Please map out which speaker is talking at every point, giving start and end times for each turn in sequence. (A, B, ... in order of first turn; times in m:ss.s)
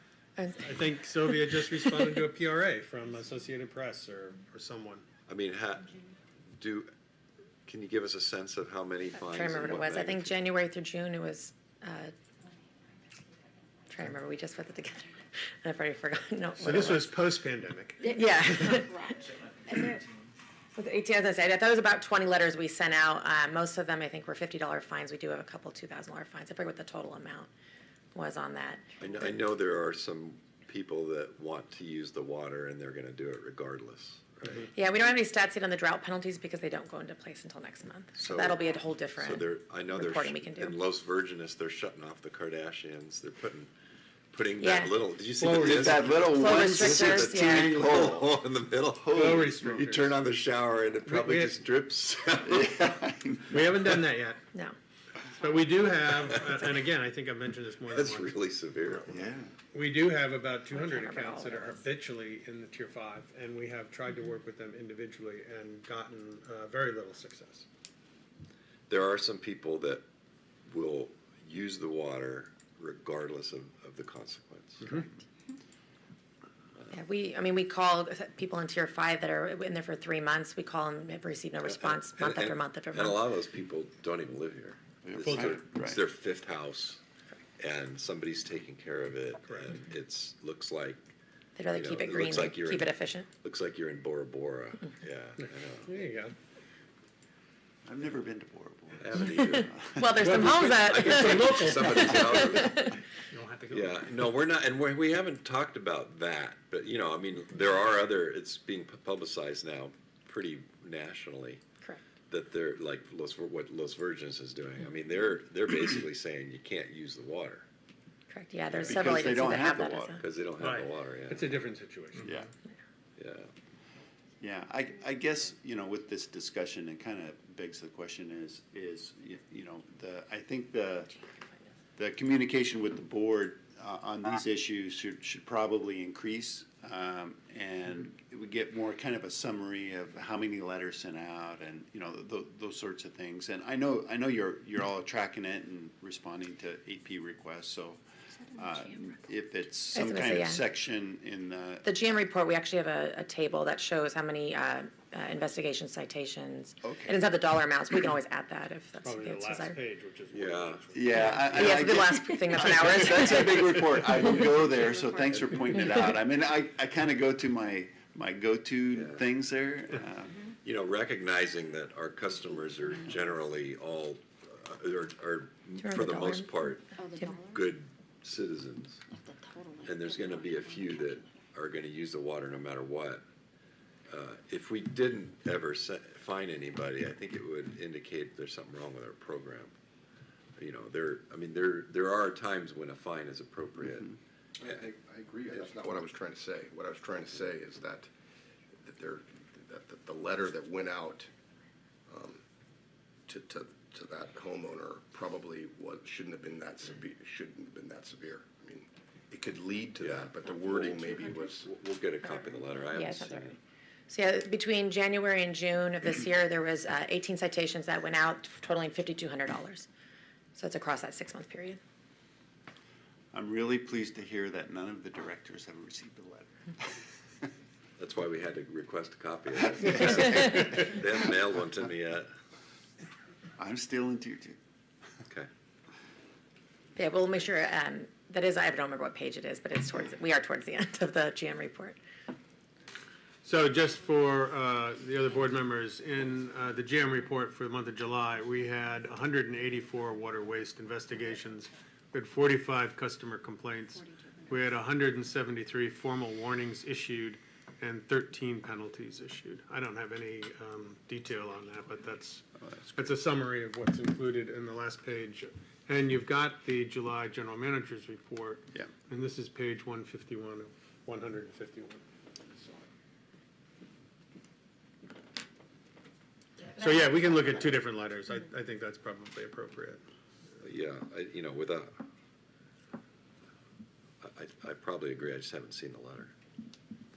0:00.4-0:00.8 A
0:00.6-0:05.0 B
0:05.3-0:05.9 C
0:06.6-0:06.9 C
0:07.7-0:10.4 C
0:09.2-0:12.1 A
0:13.9-0:17.1 A
0:16.6-0:18.8 B
0:18.1-0:19.1 A
0:18.9-0:19.2 D
0:19.7-0:20.0 A
0:20.8-0:27.5 A
0:28.1-0:29.0 A
0:29.0-0:34.7 C
0:34.7-0:40.8 A
0:38.2-0:43.7 C
0:44.3-0:52.9 C
0:44.6-0:44.9 A
0:45.4-0:48.3 E
0:45.6-0:46.1 B
0:46.3-0:47.8 A
0:49.1-0:49.4 E
0:49.1-0:50.1 B
0:51.1-0:51.5 B
0:52.5-0:53.6 E
0:53.5-0:54.4 B
0:55.3-0:58.3 B
0:57.9-0:59.2 C
0:59.1-0:59.5 E
0:59.7-1:07.7 B
1:00.7-1:01.8 A
1:08.9-1:10.0 C
1:10.7-1:15.1 C
1:16.9-1:23.2 A
1:21.6-1:27.0 C
1:25.0-1:26.0 E
1:25.2-1:25.5 B
1:27.6-1:31.1 C
1:31.6-1:33.3 A
1:31.7-1:35.9 C
1:35.8-1:36.3 B
1:37.8-1:40.2 E
1:39.0-1:39.7 C
1:39.4-1:43.0 A
1:40.2-1:42.5 B
1:40.2-1:43.0 C
1:43.3-1:44.0 B
1:43.7-1:51.6 C
1:52.3-1:57.6 C
1:58.3-2:00.2 A
1:58.7-1:59.2 C
1:58.8-2:00.2 E
2:00.2-2:01.5 C
2:00.6-2:02.4 B
2:02.2-2:02.5 E
2:03.2-2:03.5 C
2:04.4-2:11.1 E
2:12.0-2:31.9 E
2:29.9-2:30.6 A
2:31.8-2:39.8 A
2:36.8-2:37.2 E
2:39.0-2:41.8 B
2:40.3-2:40.8 C
2:40.9-2:50.4 E
2:41.6-2:43.8 A
2:48.9-2:49.2 C
2:50.6-2:59.0 C
2:55.8-2:56.5 A
2:57.0-2:57.6 D
2:59.1-3:01.1 D
2:59.8-3:03.2 C
3:04.1-3:09.7 C
3:10.6-3:14.1 C
3:14.6-3:18.1 F
3:18.8-3:21.3 F
3:22.1-3:22.4 F
3:23.3-3:31.7 F
3:30.0-3:33.6 C
3:32.9-3:39.9 A
3:40.6-3:41.8 A
3:43.3-3:46.6 E
3:48.0-3:52.3 C
3:53.6-3:54.6 E
3:57.0-4:02.0 A
4:03.4-4:22.4 B
4:22.7-4:23.0 E
4:23.0-4:32.0 B
4:36.8-4:40.0 B
4:40.6-4:42.0 C
4:44.2-4:46.3 C